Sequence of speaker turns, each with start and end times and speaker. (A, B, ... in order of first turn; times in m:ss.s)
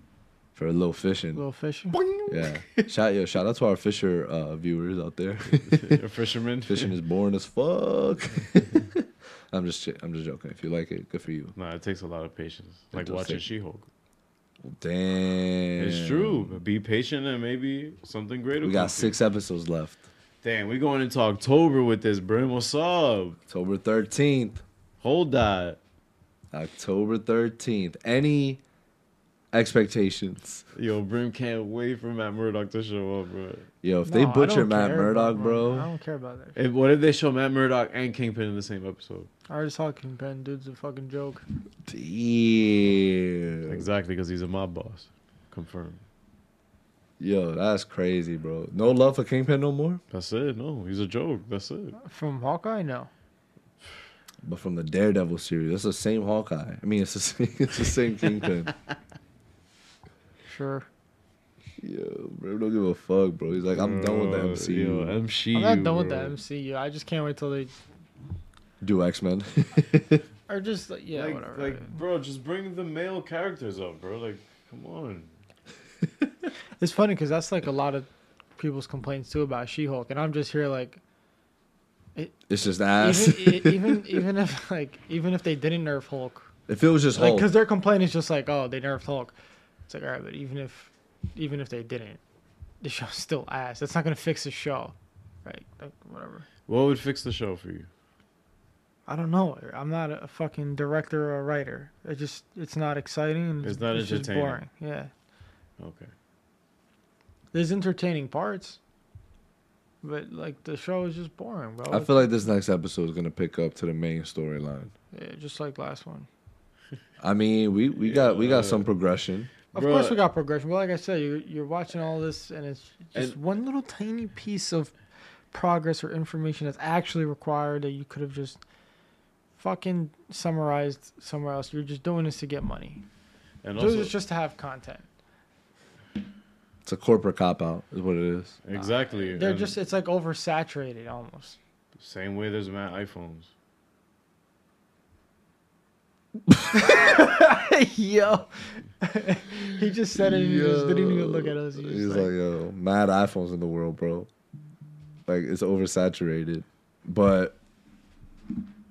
0:00.6-0:01.4 A
0:01.4-0:02.0 B
0:02.3-0:06.0 A
0:05.5-0:06.9 C
0:06.7-0:11.5 A
0:11.6-0:13.9 C
0:12.9-0:13.4 A
0:14.6-0:16.6 A
0:15.8-0:19.2 C
0:18.6-0:20.0 A
0:20.4-0:23.4 C
0:23.5-0:24.6 A
0:25.0-0:25.8 C
0:26.5-0:28.6 A
0:29.5-0:30.6 A
0:30.8-0:33.7 C
0:33.8-0:35.9 A
0:34.1-0:36.6 B
0:36.6-0:39.3 C
0:39.5-0:41.4 B
0:41.9-0:43.9 A
0:43.7-0:46.0 C
0:47.2-0:50.0 A
0:50.1-0:52.0 C
0:52.0-0:53.1 B
0:54.4-0:58.7 A
1:00.4-1:00.9 B
1:01.8-1:05.2 A
1:03.7-1:06.4 C
1:05.5-1:07.7 B
1:08.8-1:10.2 A
1:10.5-1:12.0 B
1:11.1-1:15.3 C
1:16.8-1:21.0 B
1:22.5-1:24.2 A
1:23.0-1:26.5 B
1:26.7-1:27.5 A
1:27.2-1:29.4 B
1:29.9-1:32.2 B
1:32.8-1:36.5 B
1:36.7-1:37.9 C
1:39.1-1:45.1 B
1:43.6-1:44.6 C
1:45.8-1:46.1 C
1:47.5-1:48.8 B
1:50.0-1:52.3 B
1:51.9-1:54.9 A
1:55.1-1:56.3 B
1:57.2-1:59.5 A
1:58.0-1:58.9 C
1:59.7-2:00.2 C
1:59.7-2:04.9 B
2:05.5-2:08.6 B
2:09.6-2:13.0 B
2:13.6-2:14.1 C
2:13.8-2:15.1 B
2:16.8-2:18.6 A
2:18.6-2:19.8 C
2:18.7-2:21.6 B
2:22.0-2:23.5 C
2:26.8-2:32.3 B
2:30.2-2:34.3 A
2:35.3-2:37.6 A